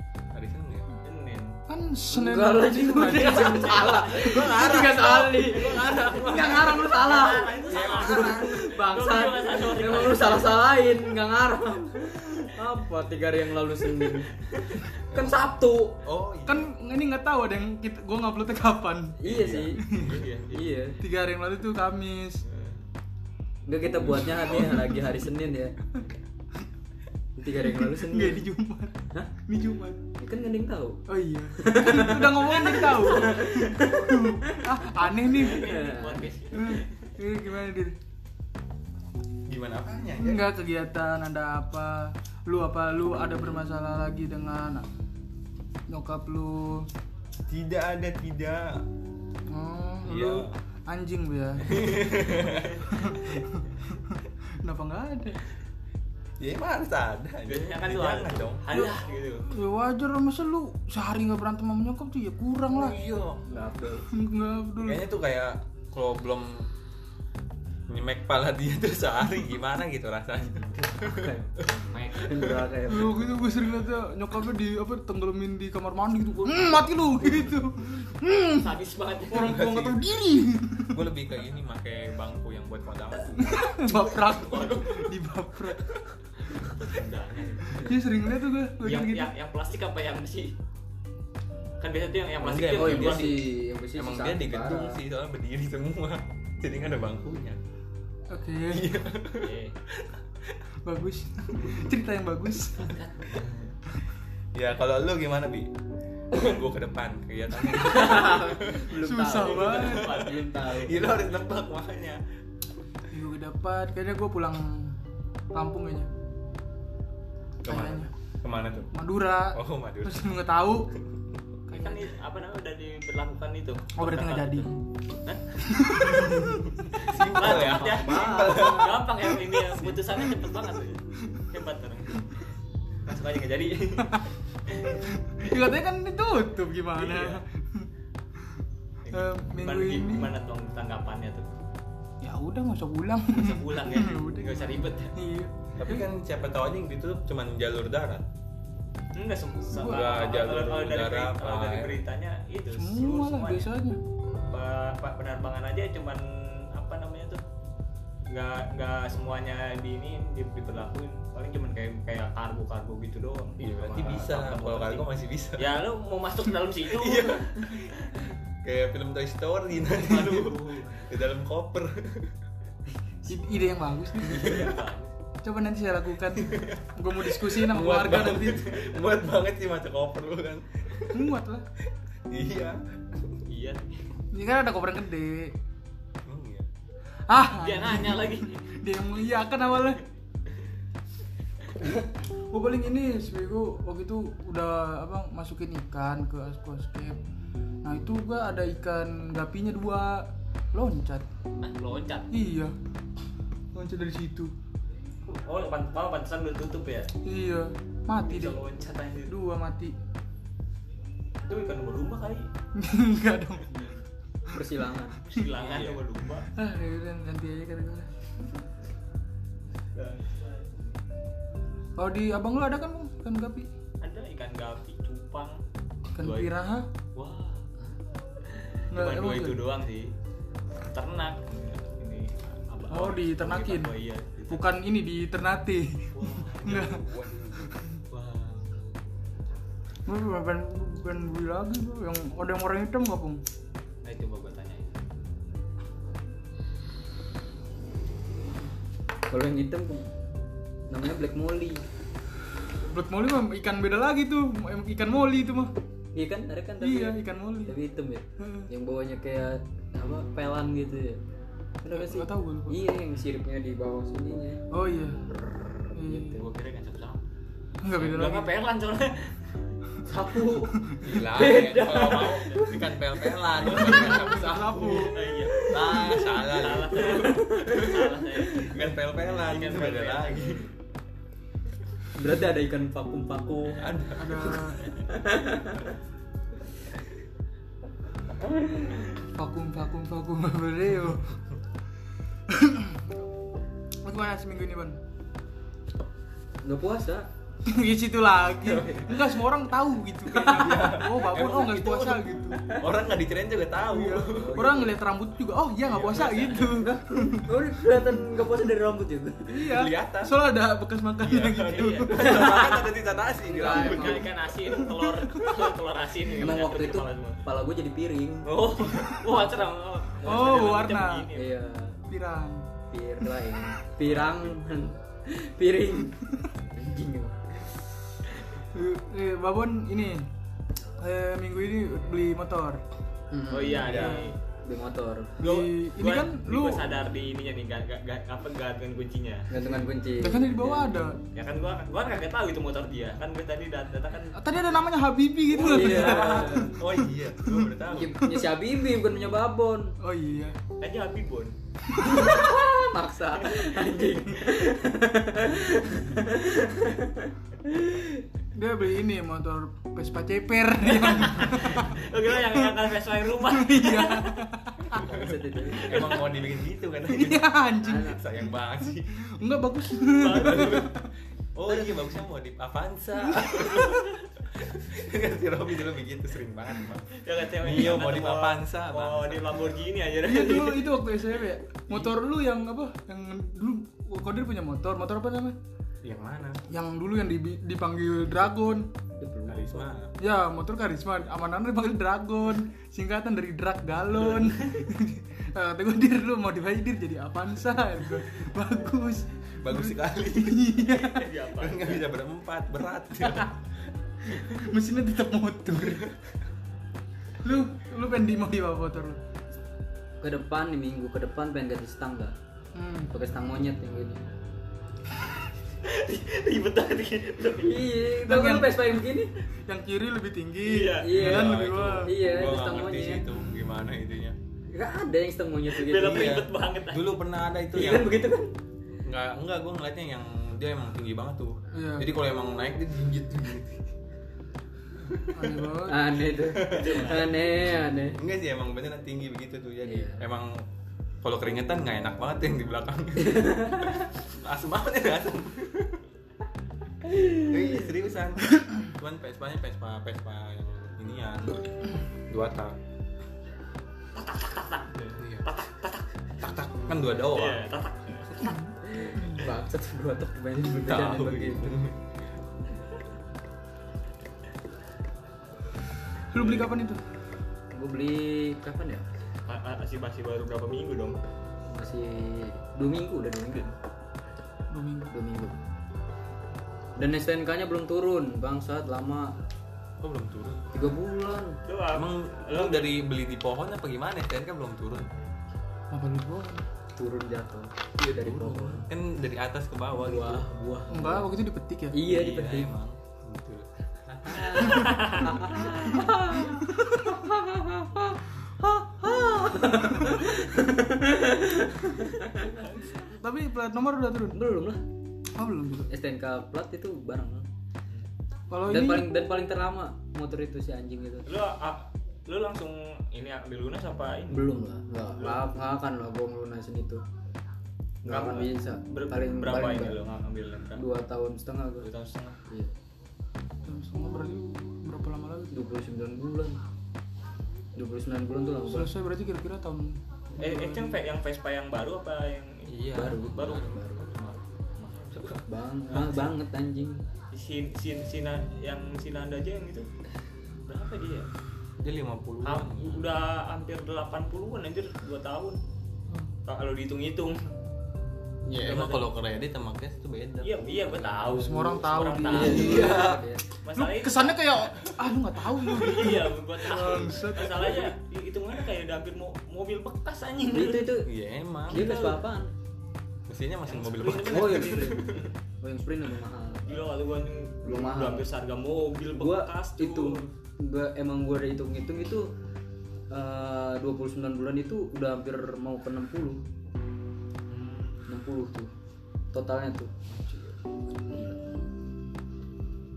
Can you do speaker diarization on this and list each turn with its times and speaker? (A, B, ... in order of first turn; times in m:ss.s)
0:00.3-0:00.9 A
0:01.0-0:01.6 B
0:01.7-0:04.5 C
0:02.1-0:14.3 D
0:03.0-0:10.6 B
0:04.1-0:06.3 A
0:06.1-0:07.7 C
0:07.4-0:08.7 A
0:14.5-0:14.8 B
0:15.1-0:15.4 A
0:15.1-0:16.0 D
0:16.0-0:16.7 A
0:16.4-0:19.2 C
0:19.2-0:19.8 D
0:19.2-0:20.3 A
0:19.8-0:20.2 C
0:19.9-0:20.7 B
0:20.5-0:21.0 D
0:21.0-0:22.4 C
0:22.4-0:22.8 B
0:23.7-0:25.7 D
0:24.4-0:24.8 C
0:27.4-0:28.4 D
0:27.6-0:30.0 C
0:30.2-0:31.0 D
0:31.1-0:35.8 C
0:31.6-0:34.7 D
0:35.2-0:37.1 B
0:35.3-0:36.3 D
0:36.5-0:38.0 C
0:39.5-0:40.5 A
0:40.2-0:44.8 C
0:43.2-0:43.6 D
0:45.9-0:46.9 C
0:47.5-0:48.8 A
0:49.5-0:52.1 C
0:50.0-0:50.5 A
0:51.6-0:52.8 A
0:52.9-0:55.4 C
0:56.4-0:58.6 A
0:57.4-0:59.5 B
0:58.7-1:03.0 C
1:02.7-1:03.4 A
1:03.4-1:04.1 D
1:04.1-1:05.0 C
1:04.8-1:06.7 A
1:07.9-1:11.7 A
1:10.9-1:11.6 D
1:11.7-1:12.6 B
1:12.1-1:13.2 D
1:12.3-1:12.6 A
1:12.8-1:18.7 C
1:16.4-1:17.3 B
1:18.4-1:19.6 B
1:19.3-1:21.1 C
1:19.4-1:20.0 A
1:20.9-1:23.6 A
1:23.4-1:25.9 C
1:24.3-1:25.0 B
1:26.4-1:28.0 B
1:27.8-1:29.3 C
1:28.8-1:30.5 B
1:31.8-1:33.4 B
1:32.4-1:37.6 A
1:32.7-1:35.0 D
1:38.3-1:38.9 C
1:38.7-1:40.5 A
1:39.4-1:39.8 B
1:40.8-1:43.0 C
1:42.8-1:43.8 B
1:44.5-1:45.7 A
1:46.3-1:48.9 A
1:47.7-1:51.2 D
1:48.9-1:50.3 C
1:49.3-1:50.5 B
1:49.9-1:52.2 A
1:53.1-1:55.0 C
1:55.5-1:56.1 C
1:57.6-1:58.9 A
1:57.6-1:58.1 C
1:58.9-2:00.9 C
1:59.5-2:00.4 A
2:01.7-2:02.1 C
2:01.7-2:04.7 B
2:04.0-2:04.7 C
2:05.6-2:06.6 C
2:06.2-2:09.3 A
2:07.0-2:12.2 B
2:07.8-2:08.9 D
2:13.0-2:15.0 B
2:14.9-2:17.9 C
2:17.0-2:17.4 B
2:19.0-2:21.5 B
2:19.1-2:20.3 C
2:22.2-2:26.1 C
2:23.3-2:25.1 B
2:25.8-2:28.3 A
2:29.1-2:33.7 B
2:29.7-2:30.1 C
2:29.8-2:32.0 A
2:32.7-2:34.0 C
2:34.5-2:37.4 B
2:38.3-2:48.2 B
2:43.6-2:45.7 A
2:46.8-2:47.9 A
2:48.6-2:52.4 A
2:49.9-2:51.1 B
2:53.2-2:54.7 C
2:54.2-2:55.1 B
2:54.4-2:54.8 A
2:55.4-2:58.6 C
2:56.4-3:01.3 A
3:01.1-3:01.6 C
3:02.3-3:03.4 A
3:03.5-3:04.0 B
3:04.3-3:05.5 C
3:06.2-3:06.7 A
3:07.3-3:10.0 C
3:07.6-3:08.6 B
3:12.5-3:17.2 C
3:17.8-3:21.2 C
3:21.6-3:22.3 B
3:22.3-3:22.7 C
3:23.7-3:24.5 C
3:25.2-3:27.1 B
3:27.2-3:28.6 C
3:28.2-3:29.3 B
3:29.3-3:29.9 C
3:31.5-3:32.5 B
3:32.7-3:33.8 C
3:33.7-3:34.0 B
3:34.5-3:35.2 D
3:35.2-3:36.5 B
3:35.6-3:36.0 A
3:36.5-3:38.1 C
3:39.9-3:40.9 B
3:42.0-3:43.7 C
3:44.0-3:45.6 B
3:46.2-3:46.9 C
3:46.2-3:46.5 B
3:47.1-3:47.7 B
3:48.4-3:50.1 B
3:48.9-3:49.6 C
3:50.9-3:54.8 B
3:52.9-3:53.9 C
3:54.5-3:57.0 C
3:56.1-3:57.6 A
3:57.6-3:57.8 C
3:58.1-3:58.9 B
4:00.0-4:03.4 C
4:04.0-4:05.0 B
4:09.3-4:10.1 D
4:10.9-4:11.8 D
4:12.9-4:15.7 C
4:16.1-4:21.2 D
4:16.8-4:17.8 C
4:18.4-4:18.7 C
4:21.8-4:24.6 D
4:21.9-4:22.8 C
4:24.7-4:25.2 C
4:25.9-4:26.4 C
4:26.0-4:26.4 D
4:26.3-4:27.2 B
4:27.8-4:28.5 C
4:27.9-4:29.8 B
4:30.0-4:32.9 D
4:31.0-4:37.3 A
4:31.9-4:32.8 B
4:33.7-4:34.1 D
4:33.7-4:35.3 C
4:33.7-4:40.6 B
4:35.5-4:36.4 D
4:37.0-4:38.3 D
4:38.5-4:40.6 A
4:42.1-4:43.9 D
4:43.8-4:44.7 A
4:44.1-4:44.8 C
4:45.1-4:45.9 D
4:48.6-4:49.0 D
4:49.3-4:51.3 C
4:52.5-4:53.1 C
4:54.0-4:55.0 C
4:56.6-4:57.3 D
4:57.6-5:02.8 C
4:58.6-4:59.2 D
5:00.3-5:04.8 A
5:03.8-5:07.6 C
5:04.4-5:05.0 D
5:05.8-5:06.8 B
5:06.8-5:09.5 D
5:09.5-5:12.5 C
5:09.7-5:10.4 A
5:11.2-5:14.3 A
5:11.6-5:12.6 B
5:12.2-5:12.8 D
5:13.4-5:14.3 D
5:13.6-5:17.4 B
5:14.8-5:15.6 C
5:16.4-5:18.5 D
5:18.5-5:21.6 B
5:18.5-5:19.2 A
5:20.2-5:21.3 C
5:21.3-5:22.0 D
5:22.1-5:22.7 C
5:22.9-5:27.7 D
5:24.0-5:24.6 A
5:28.7-5:30.3 C
5:31.0-5:32.8 C
5:33.3-5:35.4 D
5:33.5-5:34.4 B
5:33.8-5:34.2 A
5:33.9-5:34.3 C
5:35.4-5:36.9 C
5:35.4-5:39.5 B
5:39.5-5:40.8 D
5:40.2-5:41.2 C
5:41.3-5:44.4 B
5:44.4-5:48.5 C
5:45.5-5:46.8 D
5:45.6-5:48.2 A
5:47.9-5:50.0 D
5:50.0-5:50.6 C
5:50.8-5:51.6 B
5:51.9-5:52.4 C
5:52.0-5:58.2 D
5:58.5-6:02.8 C
6:01.0-6:04.5 B
6:03.3-6:05.1 C
6:04.9-6:06.1 D
6:05.0-6:09.1 A
6:05.7-6:06.4 B
6:07.0-6:08.4 C
6:07.8-6:08.2 D
6:09.2-6:11.1 C
6:10.1-6:10.9 B
6:11.5-6:19.6 A
6:13.2-6:13.8 C
6:17.1-6:21.1 B
6:20.2-6:25.6 C
6:26.0-6:26.6 A
6:26.7-6:28.9 C
6:29.2-6:29.9 D
6:29.4-6:30.1 A
6:30.2-6:41.3 C
6:34.1-6:34.8 B
6:39.6-6:40.7 A
6:40.8-6:42.0 B
6:41.6-6:43.5 A
6:44.3-6:46.1 C
6:47.4-6:49.2 C
6:50.2-6:52.3 D
6:52.7-6:53.1 C
6:53.1-6:54.2 D
6:55.8-6:58.0 B
6:57.6-6:59.3 D
6:58.2-6:59.0 C
6:59.6-7:02.1 C
7:00.6-7:01.3 B
7:01.0-7:03.2 D
7:01.1-7:04.4 A
7:04.7-7:06.4 D
7:05.7-7:07.2 B
7:06.0-7:08.3 A
7:07.7-7:08.5 D
7:09.0-7:13.9 A
7:11.7-7:12.2 C
7:15.1-7:15.6 A
7:15.3-7:16.1 C
7:15.8-7:18.2 D
7:16.4-7:17.0 A
7:16.6-7:17.4 B
7:18.2-7:20.6 A
7:19.8-7:20.2 D
7:21.2-7:26.0 A
7:23.2-7:24.0 D
7:27.0-7:32.8 A
7:27.2-7:27.5 D
7:34.1-7:36.2 B
7:35.2-7:35.5 A
7:36.4-7:37.6 A
7:37.2-7:38.6 B
7:38.4-7:39.4 C
7:38.8-7:41.8 D
7:40.8-7:42.1 A
7:46.3-7:47.0 C
7:47.7-7:49.0 D
7:49.5-7:51.2 B
7:51.7-7:53.7 D
7:54.7-7:55.1 C
7:55.1-7:55.6 D
7:57.0-7:59.3 D
8:00.0-8:00.6 A
8:00.7-8:01.6 D
8:01.6-8:03.0 B
8:01.9-8:05.1 A
8:05.9-8:06.6 C
8:07.0-8:08.9 D
8:08.0-8:10.5 A
8:09.9-8:11.3 D
8:10.9-8:12.0 C
8:11.9-8:12.7 D
8:12.0-8:14.8 A
8:14.3-8:22.5 D
8:14.6-8:15.3 B
8:16.0-8:17.1 C
8:22.5-8:23.0 A
8:23.0-8:24.4 C
8:24.3-8:24.8 D
8:25.3-8:25.9 C
8:25.9-8:27.5 D
8:28.5-8:29.1 C
8:28.7-8:31.3 D
8:31.2-8:34.5 B
8:34.3-8:37.0 D
8:38.0-8:40.0 D
8:38.0-8:40.8 B
8:40.8-8:41.9 D
8:41.8-8:42.4 B
8:43.6-8:45.6 C
8:45.5-8:46.6 D
8:47.8-8:48.9 D
8:48.7-8:51.0 C
8:50.4-8:55.4 B
8:52.7-8:54.1 D
8:55.4-8:57.0 D
8:55.9-8:56.2 B
8:57.3-8:59.9 B
9:00.7-9:01.3 B
9:01.8-9:03.2 A
9:02.4-9:05.6 B
9:06.4-9:07.4 B
9:08.4-9:11.4 A
9:08.6-9:09.1 B
9:10.4-9:13.1 B
9:11.2-9:13.1 C
9:12.2-9:13.4 D
9:12.4-9:13.2 A
9:13.6-9:14.6 B
9:13.7-9:17.9 C
9:15.6-9:21.0 B
9:20.5-9:21.1 D
9:21.0-9:22.0 A
9:21.7-9:22.5 D
9:21.7-9:22.2 B
9:23.3-9:25.2 A
9:23.6-9:25.3 B
9:24.2-9:26.8 D
9:26.6-9:30.3 B
9:27.6-9:28.3 D
9:29.1-9:32.3 D
9:33.1-9:36.4 D
9:37.5-9:38.0 B
9:38.1-9:38.7 D
9:39.3-9:40.5 D
9:41.0-9:41.4 D